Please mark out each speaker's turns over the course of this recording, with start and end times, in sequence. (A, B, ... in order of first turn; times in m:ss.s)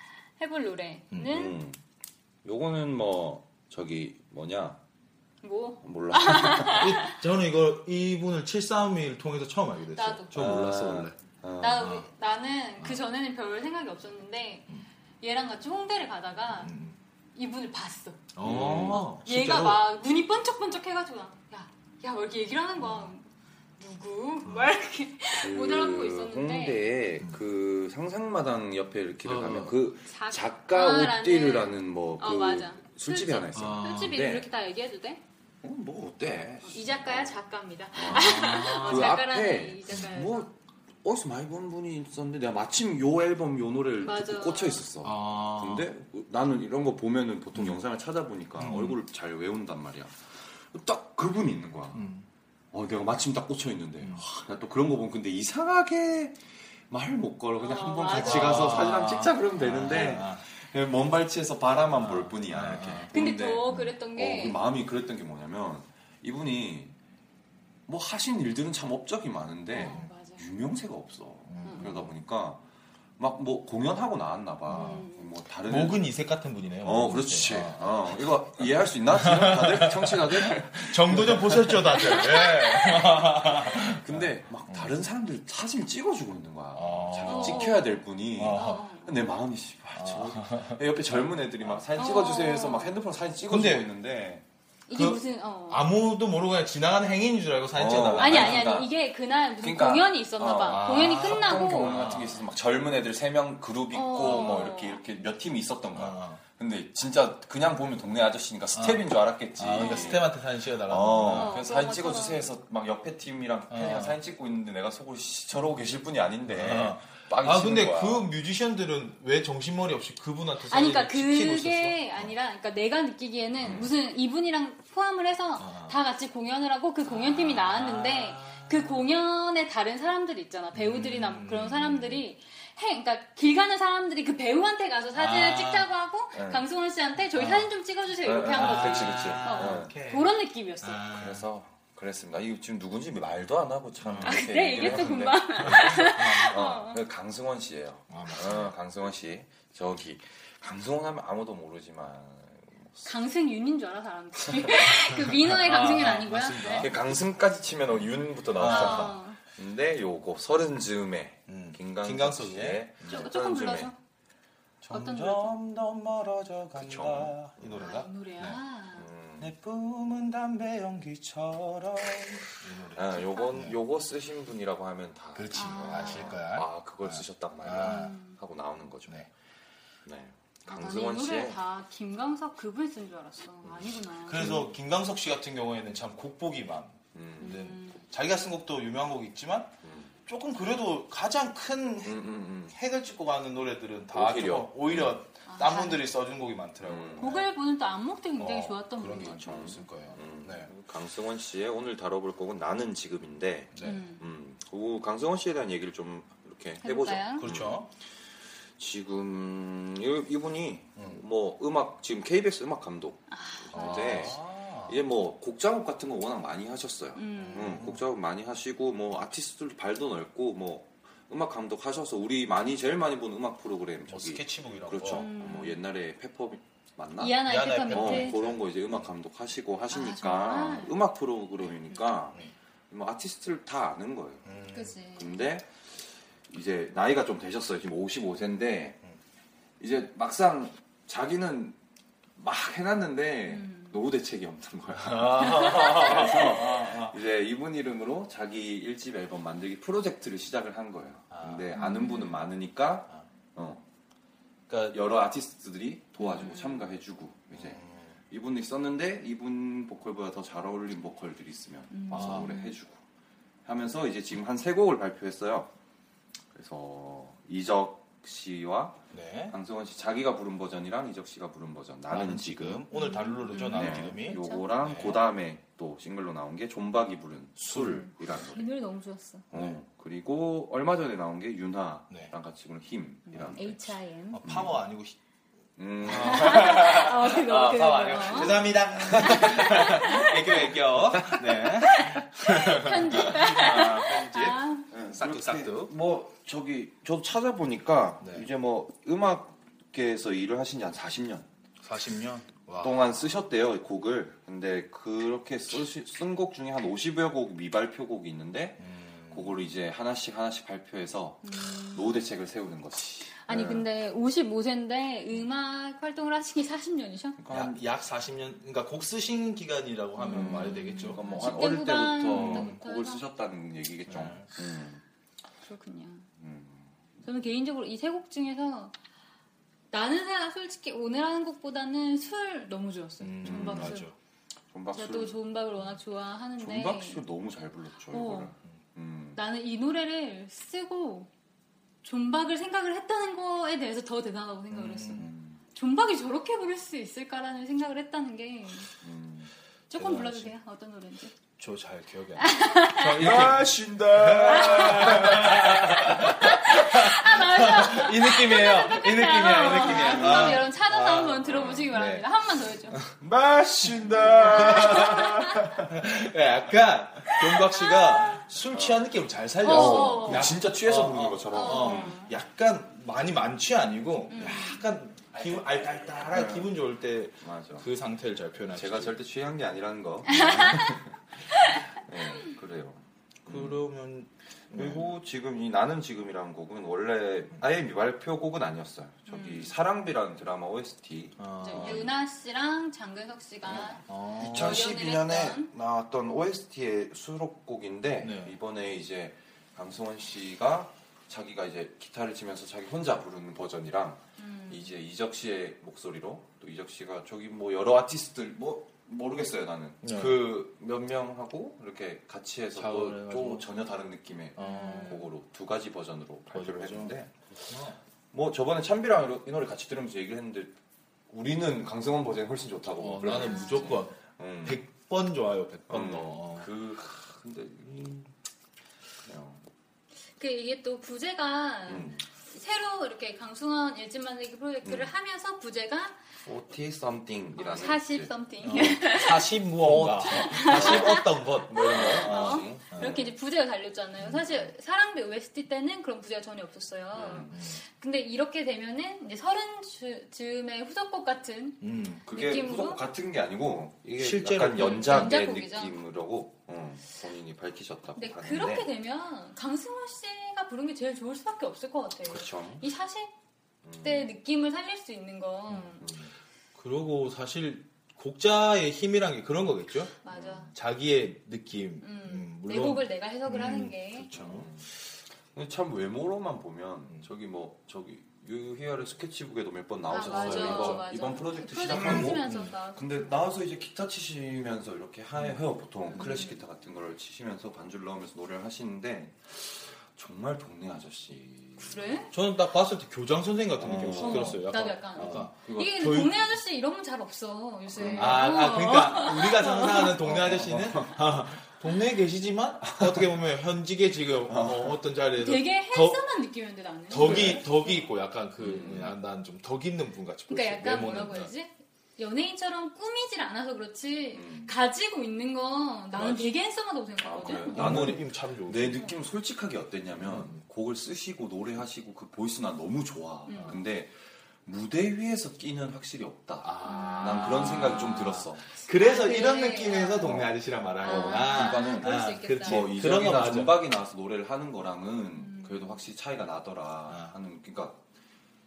0:00.4-0:01.6 A
0:01.2-0:01.8 B
0:02.4-0:04.8 B
0:05.4-0:07.1 A
0:05.8-0:07.0 B
0:06.7-0:11.2 C
0:10.0-0:10.4 A
0:10.3-0:12.0 B
0:11.6-0:14.7 A
0:11.8-0:12.1 C
0:15.2-0:16.7 A
0:16.6-0:17.0 C
0:17.3-0:18.3 A
0:18.3-0:19.8 C
0:18.4-0:19.0 B
0:18.8-0:23.2 A
0:23.8-0:26.9 A
0:24.4-0:24.7 C
0:25.3-0:34.5 B
0:29.2-0:29.8 C
0:30.1-0:35.2 A
0:33.5-0:34.2 C
0:35.6-0:37.4 B
0:36.6-0:40.5 A
0:37.9-0:52.1 B
0:38.0-0:39.2 C
0:44.0-0:44.8 A
0:45.0-0:45.9 C
0:48.6-0:49.0 C
0:51.9-0:52.2 C
0:52.7-0:56.4 B
0:56.9-1:07.0 B
0:57.6-0:58.9 A
0:58.1-1:00.4 C
1:02.0-1:03.1 C
1:03.1-1:04.6 A
1:07.9-1:12.6 B
1:09.7-1:10.4 A
1:09.8-1:10.1 C
1:11.5-1:12.1 C
1:13.2-1:16.1 B
1:14.7-1:15.0 C
1:14.7-1:15.3 A
1:15.7-1:18.1 C
1:16.8-1:22.3 B
1:19.1-1:24.9 C
1:22.1-1:22.9 A
1:22.8-1:34.4 B
1:26.7-1:27.8 C
1:27.2-1:29.2 A
1:28.3-1:28.8 C
1:29.9-1:30.8 C
1:32.0-1:33.0 A
1:33.5-1:33.9 C
1:34.9-1:36.0 A
1:34.9-1:38.7 C
1:37.7-1:38.9 B
1:38.2-1:42.0 A
1:39.6-1:58.3 B
1:40.6-1:42.4 C
1:43.9-1:45.0 A
1:45.9-1:46.4 C
1:48.7-1:51.6 C
1:49.8-1:50.2 A
1:51.3-1:52.5 A
1:53.7-1:54.2 C
1:56.5-2:02.0 C
2:00.7-2:21.0 A
2:03.6-2:03.9 B
2:05.6-2:06.0 C
2:07.1-2:07.5 B
2:07.4-2:09.0 C
2:10.7-2:12.2 C
2:15.1-2:15.9 C
2:16.3-2:16.6 B
2:17.3-2:17.7 C
2:18.2-2:19.9 B
2:18.4-2:21.5 C
2:21.1-2:33.1 B
2:24.0-2:26.6 C
2:24.2-2:27.0 A
2:28.1-2:28.7 C
2:33.0-2:36.9 A
2:35.4-2:36.9 C
2:36.8-2:43.9 B
2:38.6-2:39.2 C
2:38.6-2:39.4 A
2:41.5-2:42.9 C
2:43.1-2:44.0 A
2:44.8-2:48.6 C
2:44.9-2:45.6 A
2:46.7-2:47.9 B
2:47.8-2:49.1 A
2:48.9-2:49.5 B
2:49.4-2:53.8 C
2:52.9-2:59.3 B
2:55.3-2:58.2 C
2:55.5-2:56.4 A
2:57.8-2:58.3 A
3:00.0-3:01.6 B
3:00.7-3:04.5 A
3:04.2-3:09.8 C
3:04.3-3:04.7 B
3:07.1-3:07.6 B
3:07.4-3:08.0 A
3:09.8-3:10.1 B
3:10.3-3:17.5 C
3:12.0-3:12.8 B
3:14.1-3:15.2 B
3:15.5-3:16.1 A
3:16.8-3:17.4 B
3:17.2-3:19.5 A
3:18.4-3:20.7 C
3:19.2-3:27.9 B
3:23.7-3:24.0 C
3:23.8-3:24.2 A
3:26.8-3:27.5 A
3:27.4-3:27.9 C
3:28.8-3:54.4 B
3:33.3-3:34.4 A
3:33.7-3:35.0 C
3:37.2-3:37.8 A
3:37.3-3:38.0 C
3:44.1-3:45.3 C
3:45.1-3:45.8 A
3:47.2-3:48.4 A
3:47.4-3:49.1 C
3:49.9-3:51.0 A
3:54.4-3:54.9 C
3:54.7-3:55.4 A
3:55.1-3:55.8 B
3:56.5-3:59.0 B
3:59.8-4:01.8 B
4:02.4-4:13.8 B
4:03.5-4:04.0 A
4:05.0-4:07.2 C
4:05.7-4:06.0 A
4:11.3-4:11.8 C
4:11.7-4:12.4 A
4:14.7-4:23.0 B
4:16.2-4:16.8 A
4:17.5-4:18.2 C
4:21.9-4:22.8 A
4:22.1-4:22.5 C
4:23.6-4:25.7 B
4:26.5-4:32.8 B
4:29.1-4:29.6 C
4:32.1-4:35.2 C
4:32.9-4:35.2 A
4:33.7-4:38.7 B
4:37.6-4:38.0 C
4:37.7-4:39.5 A
4:39.5-4:39.8 C
4:39.5-4:44.8 B
4:43.3-4:44.4 A
4:44.3-4:45.2 C
4:45.8-4:47.1 B
4:46.0-4:55.9 C
4:46.2-4:48.7 A
4:48.1-4:50.1 B
4:49.2-4:50.4 A
4:51.7-4:54.9 A
4:54.9-5:01.5 B
4:58.2-4:58.5 C
5:01.8-5:03.3 C
5:02.8-5:13.9 B
5:08.8-5:09.6 C
5:11.4-5:12.2 A
5:13.4-5:17.4 A
5:17.4-5:17.8 B
5:17.5-5:21.7 C
5:20.2-5:23.2 A
5:20.3-5:25.0 B
5:22.2-5:22.8 C
5:24.1-5:24.5 C
5:25.6-5:26.3 A
5:26.4-5:27.0 B
5:27.2-5:28.9 A
5:29.9-5:34.1 A
5:33.2-5:34.1 C
5:33.4-5:34.0 B
5:34.7-5:35.4 B
5:34.9-5:37.2 A
5:36.6-5:39.4 B
5:38.1-5:38.5 A
5:39.3-5:41.3 A
5:42.0-5:48.9 A
5:44.7-5:45.3 C
5:45.1-5:45.6 B
5:49.0-5:50.2 B
5:49.9-5:51.3 A
5:50.0-5:50.5 C
5:51.6-6:02.3 C
5:52.4-5:53.3 A
5:53.0-5:56.3 B
5:54.5-5:55.4 A
5:56.0-6:03.0 A
5:59.6-6:00.6 B
6:01.4-6:01.9 B
6:03.2-6:06.0 B
6:04.0-6:05.2 C
6:04.4-6:05.6 A
6:05.8-6:19.2 C
6:07.8-6:08.4 A
6:08.7-6:09.1 B
6:09.6-6:10.5 A
6:09.6-6:12.2 B
6:11.5-6:12.3 A
6:14.3-6:14.8 A
6:15.3-6:16.8 B
6:17.4-6:17.9 B
6:18.7-6:23.8 B
6:20.3-6:21.0 A
6:23.4-6:25.1 C
6:24.7-6:32.1 B
6:29.3-6:29.7 A
6:31.4-6:32.0 C
6:31.6-6:35.7 A
6:33.6-6:57.3 B
6:34.1-6:34.8 C
6:38.2-6:38.6 C
6:44.4-6:44.9 A
6:50.0-6:50.5 C
6:52.7-6:53.7 C
6:54.6-6:55.2 C
6:54.6-6:55.3 A
6:56.5-6:58.0 C
6:58.3-7:00.7 B
7:01.3-7:04.8 B
7:03.0-7:06.7 C
7:03.3-7:04.0 A
7:05.9-7:08.3 B
7:09.2-7:09.6 B
7:10.4-7:16.2 A
7:11.9-7:12.2 B
7:14.8-7:15.1 B
7:16.4-7:18.3 B
7:17.6-7:19.6 A
7:18.6-7:23.2 C
7:19.8-7:23.3 B
7:20.2-7:33.0 A
7:24.2-7:24.7 B
7:27.1-7:27.6 B
7:27.5-7:27.8 C
7:31.8-7:32.2 C
7:32.2-7:38.9 B
7:34.0-7:35.4 C
7:34.8-7:36.0 A
7:38.2-7:43.3 A
7:42.3-7:42.8 B
7:43.8-7:44.3 B
7:44.0-7:46.0 A
7:46.0-7:46.3 B
7:46.8-7:50.1 C
7:50.2-7:50.7 A
7:50.3-7:50.7 B
7:50.7-7:54.7 C
7:52.0-7:54.3 A
7:54.3-7:54.9 B
7:55.5-8:12.2 B
8:00.1-8:03.0 A
8:00.2-8:01.1 C
8:01.8-8:02.7 C
8:06.1-8:06.6 A
8:11.8-8:12.3 A
8:12.3-8:16.3 C
8:13.8-8:16.2 B
8:14.1-8:20.2 A
8:17.9-8:18.7 B
8:18.2-8:26.2 C
8:20.2-8:21.4 B
8:23.0-8:23.2 B
8:24.4-8:25.0 B
8:25.4-8:28.0 A
8:27.1-8:31.5 C
8:27.2-8:27.7 B
8:28.6-8:29.2 B
8:30.5-8:38.2 A
8:34.3-8:34.7 B
8:36.2-8:36.5 B
8:37.2-8:48.6 B
8:37.6-8:39.1 C
8:40.2-8:40.6 C
8:43.5-8:43.8 A
8:43.5-8:43.8 C
8:46.6-8:53.9 C
8:46.8-8:50.4 A
8:50.2-8:58.0 B
8:51.0-8:52.9 A
8:55.4-8:56.0 A
8:57.1-8:57.3 C